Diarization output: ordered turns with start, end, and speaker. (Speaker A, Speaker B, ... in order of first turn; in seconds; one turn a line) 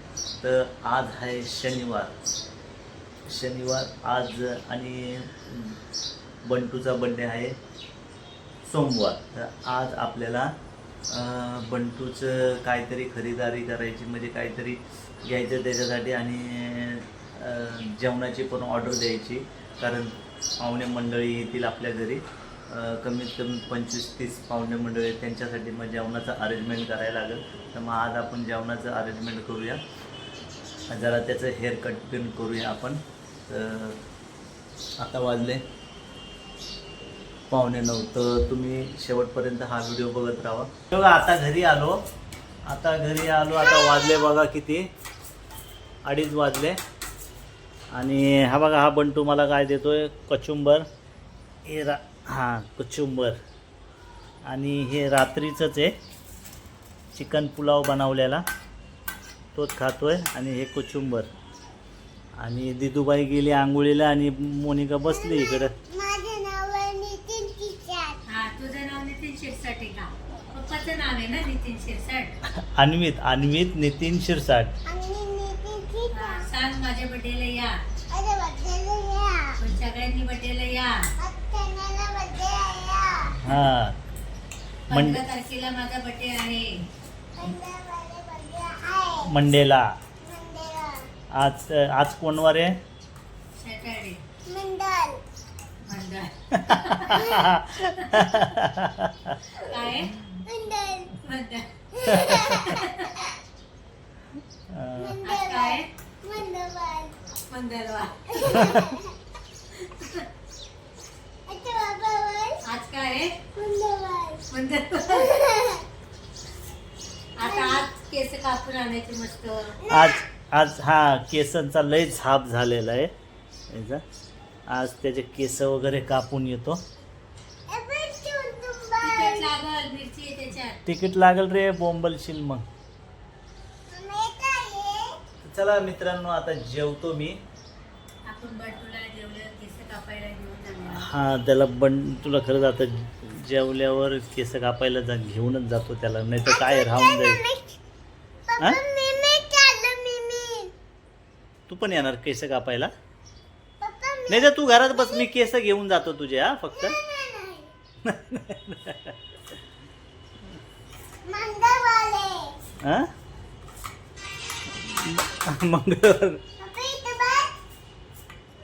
Speaker A: 0.4-2.1
Speaker A: 3.2-5.8
Speaker A: 6.4-7.5
Speaker A: 8.7-10.5
Speaker A: 11.1-29.8
Speaker A: 30.9-34.0
Speaker A: 35.0-35.6
Speaker A: 37.5-42.0
Speaker A: 42.7-44.9
Speaker A: 46.0-46.8
Speaker A: 47.9-50.8
Speaker A: 51.6-53.4
Speaker A: 54.5-56.0
Speaker A: 57.1-58.4
Speaker A: 59.5-61.3
Speaker A: 62.4-65.7
Speaker B: 65.1-68.2
Speaker C: 68.3-72.3
Speaker A: 72.6-74.7
Speaker B: 74.8-76.5
Speaker C: 76.1-77.8
Speaker B: 78.1-79.5
Speaker C: 79.6-80.9
Speaker B: 81.2-83.3
Speaker A: 83.4-84.0
Speaker C: 84.9-86.8
Speaker A: 84.9-85.2
Speaker B: 87.3-89.3
Speaker A: 89.2-89.8
Speaker B: 90.2-91.1
Speaker A: 91.3-92.8
Speaker C: 93.6-94.2
Speaker B: 94.5-95.2
Speaker C: 95.8-97.3
Speaker A: 96.5-99.4
Speaker B: 97.1-97.4
Speaker C: 97.8-98.5
Speaker C: 99.6-100.1
Speaker B: 100.4-101.2
Speaker C: 101.2-103.1
Speaker A: 102.1-102.4
Speaker B: 102.1-103.3
Speaker A: 104.7-105.2
Speaker B: 105.0-107.2
Speaker C: 105.2-105.9
Speaker C: 107.5-108.9
Speaker B: 108.3-109.1
Speaker C: 109.7-110.3
Speaker B: 111.5-112.6
Speaker C: 112.6-113.4
Speaker B: 113.5-114.5
Speaker C: 114.5-115.4
Speaker B: 115.1-115.8
Speaker C: 117.4-119.8
Speaker B: 117.4-117.9
Speaker B: 119.8-120.2
Speaker A: 119.9-123.1
Speaker A: 123.7-124.0
Speaker A: 124.7-126.8
Speaker B: 127.7-129.5
Speaker C: 129.0-130.8
Speaker A: 130.8-132.6
Speaker B: 133.9-135.2
Speaker A: 135.5-137.4
Speaker C: 138.2-141.1
Speaker A: 140.9-147.4
Speaker B: 146.4-147.8
Speaker B: 148.5-150.7
Speaker A: 151.7-152.9
Speaker B: 153.8-155.3
Speaker A: 154.3-157.0
Speaker B: 156.7-157.7
Speaker A: 158.0-159.1
Speaker B: 161.2-162.6
Speaker A: 162.8-163.1
Speaker A: 164.9-166.4
Speaker B: 166.6-167.5